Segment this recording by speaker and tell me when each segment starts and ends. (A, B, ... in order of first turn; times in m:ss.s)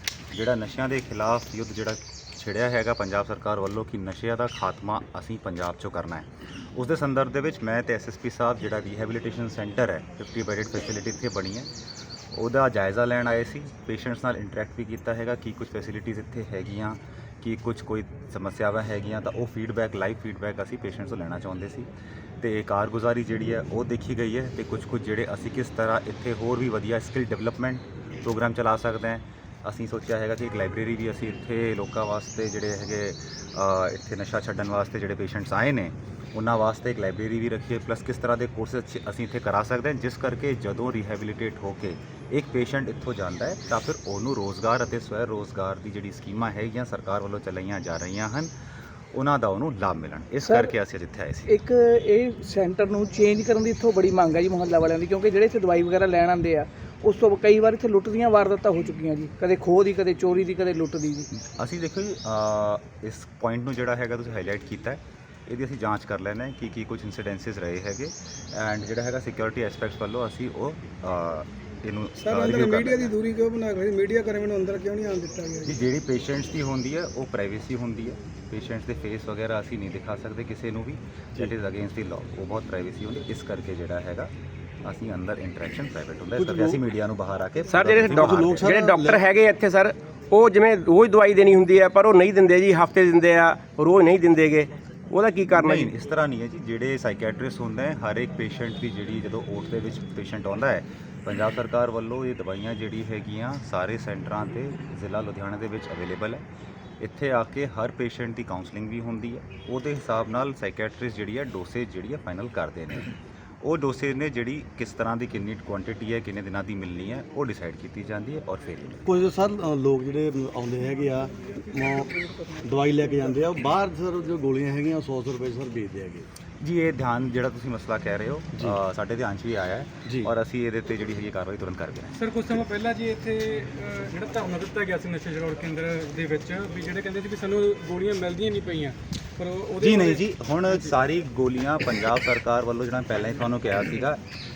0:00.3-0:11.7 A
0:12.3-0:21.9 A
0:22.4-0:48.5 A
0:49.1-0:51.6 A
0:50.4-0:50.7 B
0:51.5-1:01.3 B
1:01.3-1:13.2 A
1:12.2-1:15.8 C
1:15.6-1:24.3 A
1:24.8-1:28.7 A
1:26.4-1:26.8 D
1:27.7-1:35.9 E
1:27.9-1:29.2 D
1:35.6-1:46.4 A
1:47.0-1:59.1 A
1:59.1-2:06.3 D
2:06.6-2:12.2 A
2:12.2-2:20.2 F
2:19.8-2:24.2 A